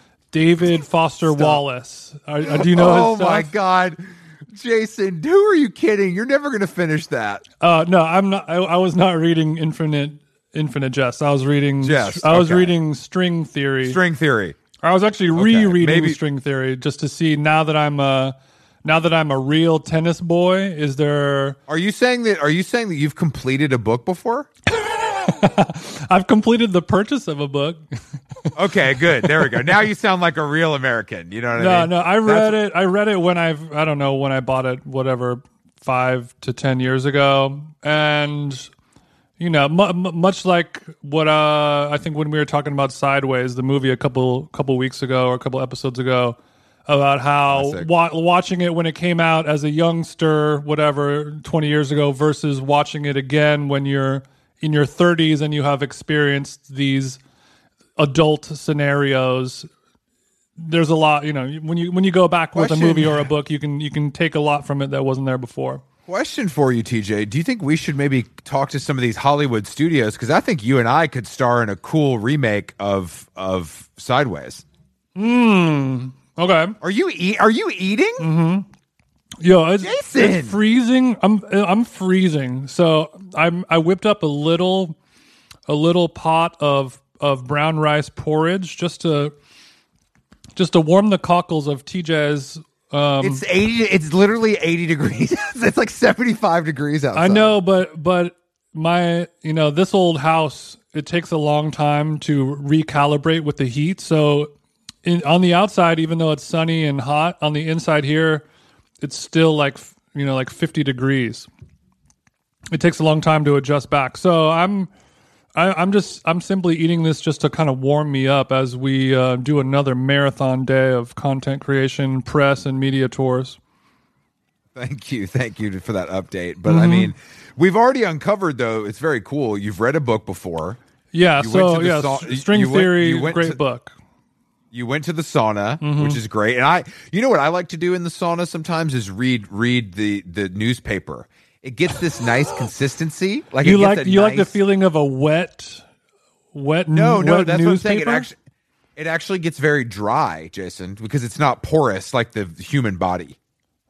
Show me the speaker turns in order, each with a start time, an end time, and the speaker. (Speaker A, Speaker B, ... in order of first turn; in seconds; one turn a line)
Speaker A: 0.3-3.5
Speaker B: 1.3-1.6
Speaker B: 2.5-7.4
Speaker A: 7.6-14.0
Speaker B: 11.8-12.7
Speaker B: 13.8-14.6
Speaker A: 14.8-21.6
Speaker B: 15.3-16.2
Speaker B: 21.7-24.5
Speaker A: 24.7-28.5
Speaker B: 28.5-32.6
Speaker A: 29.2-29.7
Speaker A: 31.6-38.7
Speaker A: 39.4-57.2
Speaker B: 47.5-47.9
Speaker A: 58.0-59.7
Speaker A: 60.6-65.8
Speaker B: 62.5-63.3
Speaker B: 66.1-74.6
Speaker A: 75.2-76.7
Speaker B: 76.8-78.3
Speaker A: 78.2-78.7
Speaker A: 79.4-85.0
Speaker B: 79.8-80.6
Speaker A: 85.7-89.3
Speaker A: 90.5-93.4
Speaker B: 93.2-97.6
Speaker A: 97.1-104.5
Speaker A: 105.0-108.4
Speaker A: 109.0-111.5
Speaker A: 112.7-114.9
Speaker A: 115.5-123.6
Speaker B: 124.7-130.8
Speaker A: 126.6-127.1
Speaker A: 131.1-133.9
Speaker B: 131.4-133.6
Speaker B: 134.7-144.6
Speaker A: 135.8-136.2
Speaker A: 143.6-145.8
Speaker A: 146.5-148.3
Speaker B: 146.9-148.3
Speaker B: 148.9-153.3